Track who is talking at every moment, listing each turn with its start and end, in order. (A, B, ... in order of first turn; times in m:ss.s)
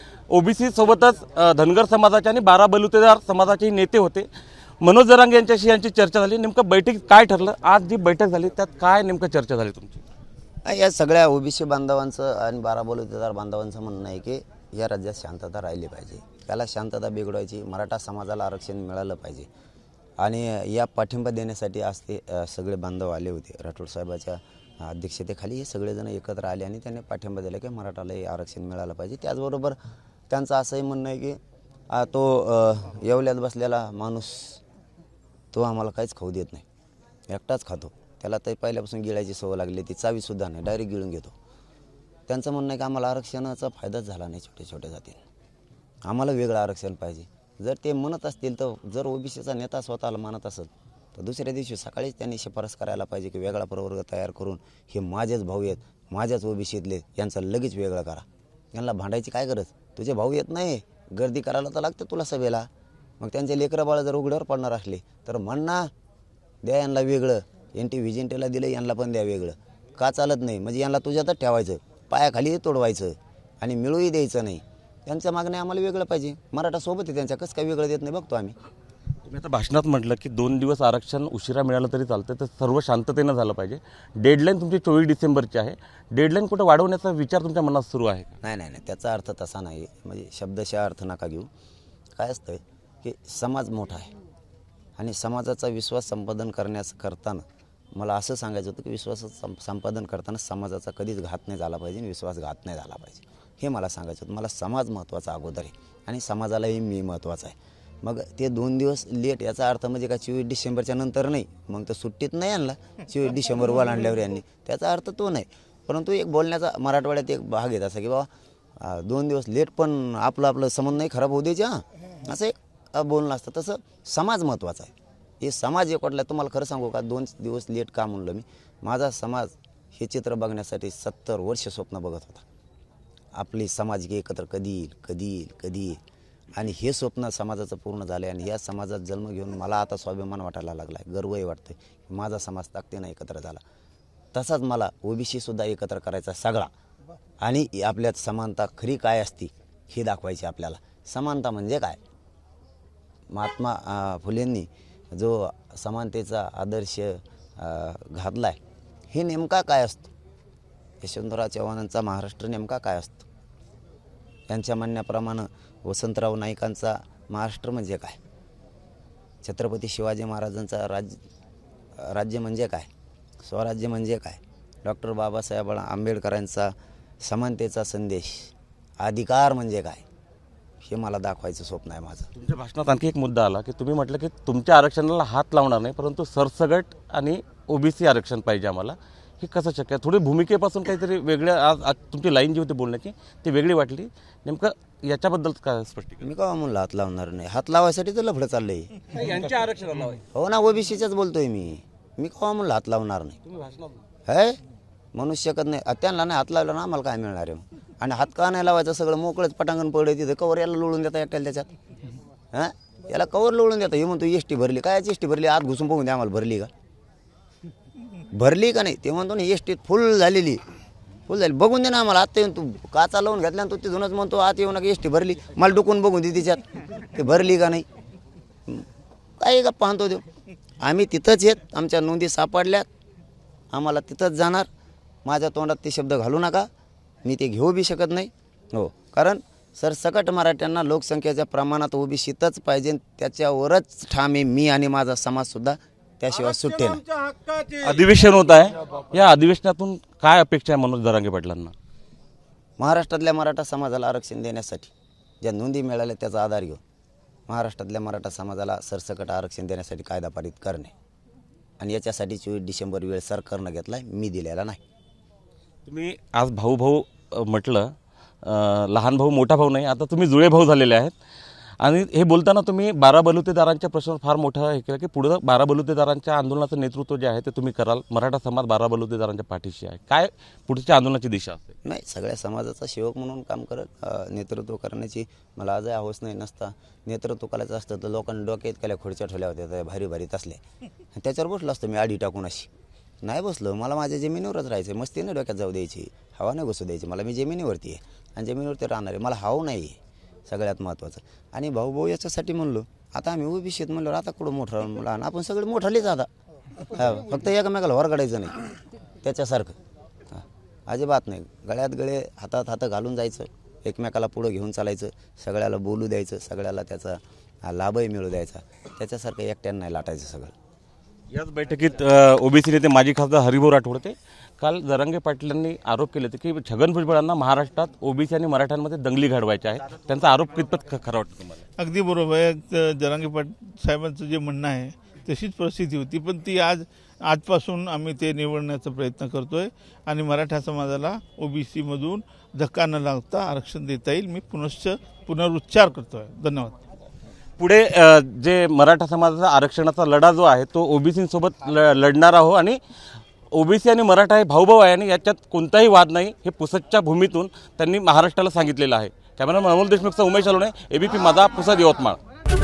0:00.3-0:04.3 A
0:04.8-0:10.0 A
0:10.6-0:19.5 B
0:20.2-0:29.8 B
0:30.3-0:34.6 B
0:35.5-0:36.6 B
0:37.3-0:41.3 B
0:42.3-0:45.2 B
0:46.1-1:02.7 B
1:03.2-1:05.9 B
1:06.6-1:18.5 B
1:19.2-1:28.3 A
1:28.4-1:31.5 B
1:32.2-1:34.1 B
1:35.0-2:12.4 B
2:13.4-2:16.0 B
2:16.5-2:23.6 B
2:24.3-2:26.7 B
2:27.4-2:32.0 B
2:33.3-2:38.6 B
2:39.1-2:40.1 B
2:41.0-2:43.3 B
2:44.5-2:48.2 B
2:49.4-2:51.2 B
2:52.0-2:52.9 B
2:53.4-3:00.0 B
3:00.8-3:02.3 B
3:02.3-3:16.2 A
3:16.2-3:19.4 B
3:19.2-3:20.2 A
3:20.2-3:23.4 B
3:23.5-3:23.9 A
3:24.2-3:24.6 B
3:25.1-3:31.7 B
3:32.5-3:36.7 B
3:38.3-3:40.6 B
3:41.3-3:47.8 B
3:49.4-3:50.2 B
3:50.8-3:52.8 B
3:53.7-3:54.7 B
3:55.2-3:56.7 B
3:57.2-4:07.0 B
4:07.5-4:11.7 A
4:12.8-4:16.8 B
4:17.5-4:20.9 B
4:21.8-4:24.8 B
4:25.8-4:31.1 A
4:31.8-4:41.8 A
4:41.8-4:50.6 B
4:51.2-4:52.7 B
4:53.2-5:06.3 B
5:06.8-5:08.6 B
5:09.2-5:09.8 B
5:10.3-5:20.5 B
5:21.3-5:31.6 A
5:31.8-5:46.8 C
5:47.6-5:52.8 A
5:53.5-6:02.2 A